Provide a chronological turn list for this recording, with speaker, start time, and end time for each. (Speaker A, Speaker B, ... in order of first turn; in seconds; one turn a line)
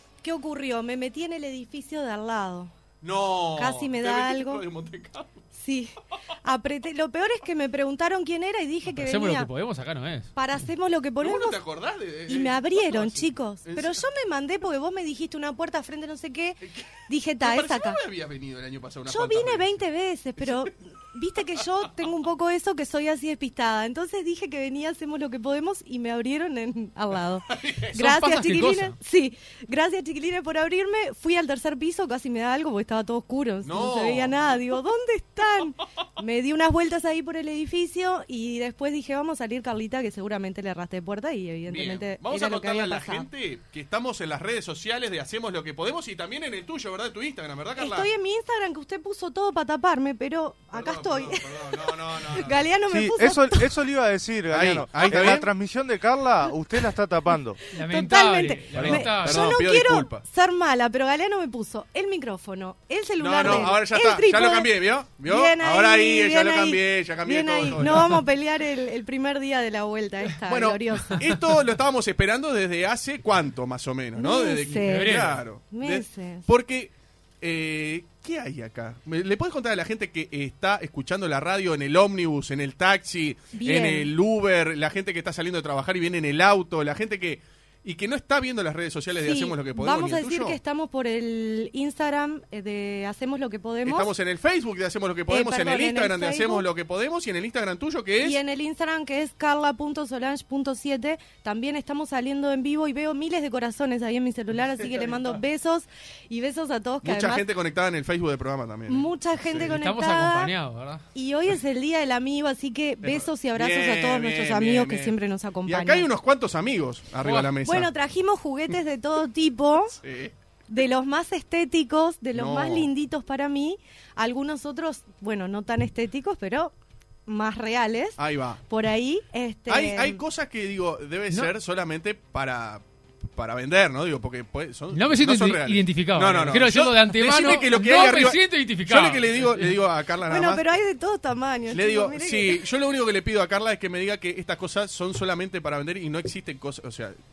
Speaker A: 0.2-2.7
Speaker B: 3.0-5.4
Speaker A: 3.5-4.6
Speaker A: 5.5-9.5
Speaker C: 8.9-10.3
Speaker A: 10.3-11.6
Speaker B: 11.2-14.0
Speaker A: 12.3-18.0
Speaker B: 17.4-19.8
Speaker A: 19.1-43.3
Speaker B: 27.5-27.9
Speaker C: 27.9-28.9
Speaker B: 33.6-34.5
Speaker B: 41.6-48.1
Speaker A: 47.8-53.7
Speaker B: 50.7-52.6
Speaker D: 52.9-57.6
Speaker B: 54.5-55.5
Speaker A: 55.1-55.3
Speaker A: 57.6-71.2
Speaker C: 57.7-59.5
Speaker B: 58.7-60.2
Speaker B: 63.2-68.2
Speaker C: 67.8-68.2
Speaker B: 70.5-90.6
Speaker A: 74.2-76.5
Speaker C: 74.7-75.4
Speaker A: 83.5-84.1
Speaker A: 89.2-94.1
Speaker B: 93.8-98.4
Speaker A: 95.3-96.7
Speaker A: 98.2-107.5
Speaker B: 104.8-105.4
Speaker B: 107.0-109.7
Speaker A: 108.9-110.5
Speaker C: 109.6-111.0
Speaker A: 111.1-116.1
Speaker B: 113.0-117.9
Speaker C: 117.2-117.5
Speaker A: 117.6-120.0
Speaker B: 120.0-120.3
Speaker A: 120.7-126.7
Speaker B: 122.3-122.9
Speaker A: 127.3-130.2
Speaker B: 128.2-128.6
Speaker B: 129.7-140.6
Speaker C: 134.9-139.8
Speaker A: 140.3-142.6
Speaker B: 141.7-147.2